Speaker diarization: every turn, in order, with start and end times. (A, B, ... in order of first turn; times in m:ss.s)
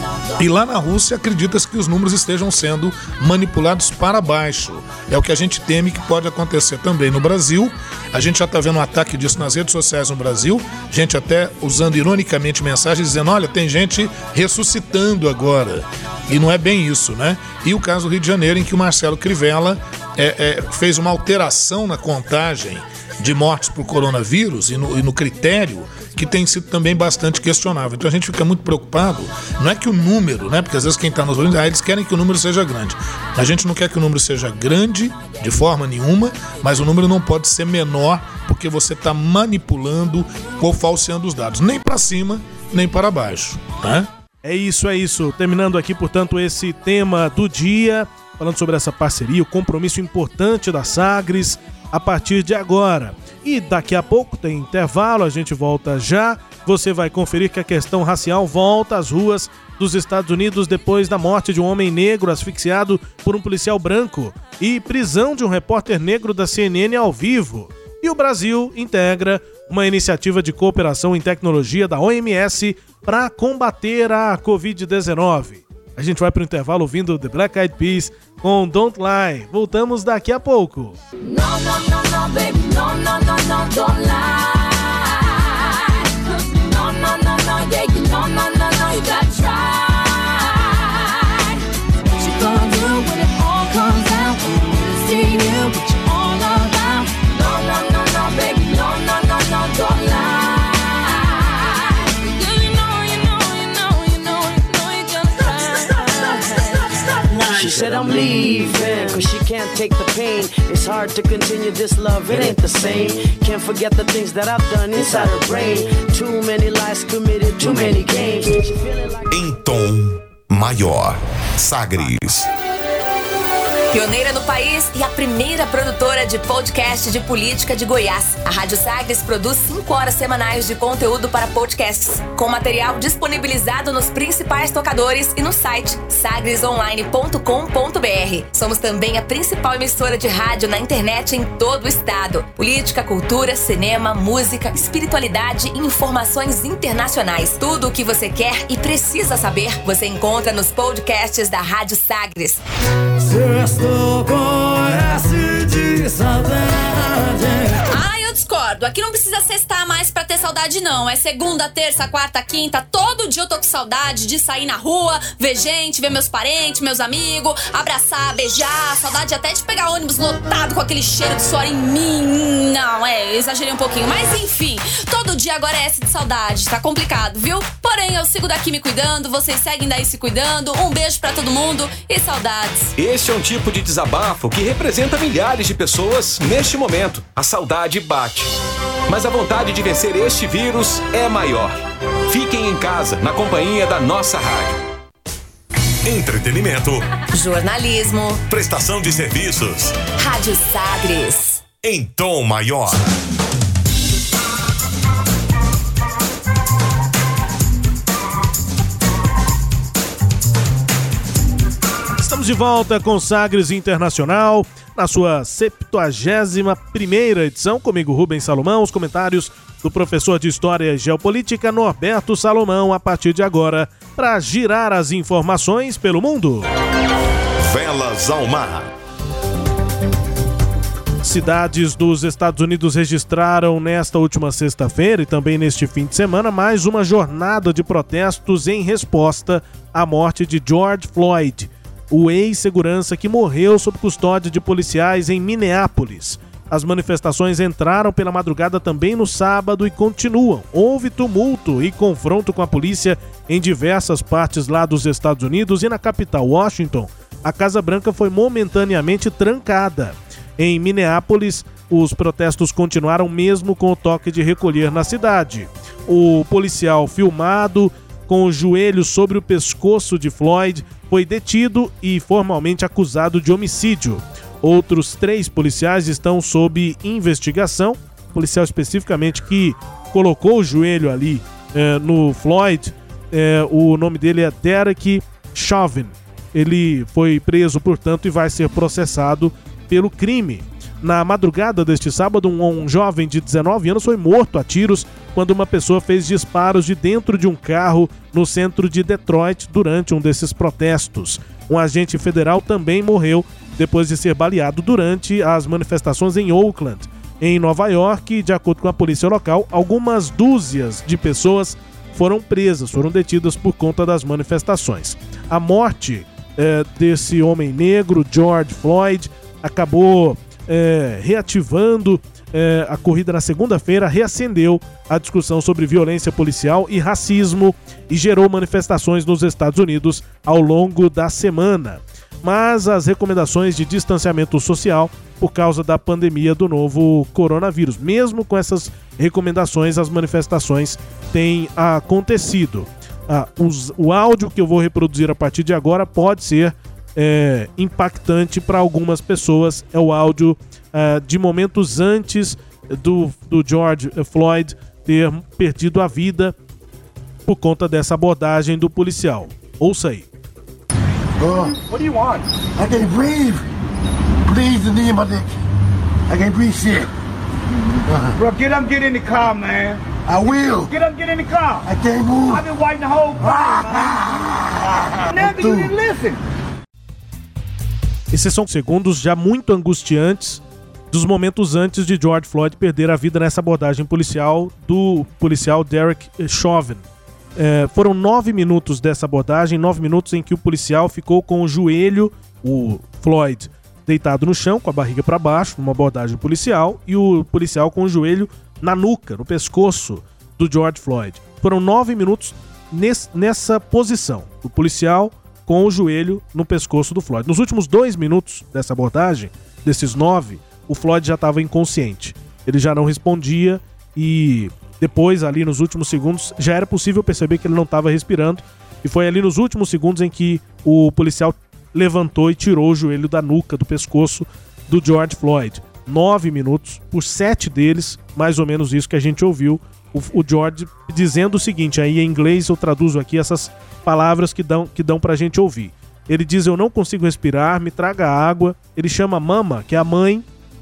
0:00.4-0:44.1 A
0:44.4-1:21.0 B
1:21.2-1:31.6 C
1:32.1-1:46.7 C
1:47.3-1:59.3 D
1:59.3-2:02.5 E
2:03.9-2:32.6 F
2:37.8-3:02.9 G
3:03.0-3:08.5 H
3:09.1-3:14.8 H
3:16.0-3:17.1 E
3:17.3-3:18.4 F
3:18.5-3:20.0 E
3:20.2-3:21.6 F
3:21.8-3:23.0 E
3:32.2-3:46.7 B
3:47.6-3:48.9 E
3:51.2-5:56.5 B
5:57.5-6:00.3 B
6:01.4-6:01.7 I
6:01.6-6:02.5 J
6:02.8-6:03.6 I
6:04.4-6:05.5 I
6:06.3-6:07.1 I
6:08.4-6:10.0 J
6:10.2-6:10.9 I
6:10.8-6:14.3 J
6:11.8-6:12.6 I
6:13.4-6:14.4 I
6:15.2-6:15.9 I
6:15.3-6:16.4 J
6:18.3-6:27.0 B
6:27.6-7:20.4 B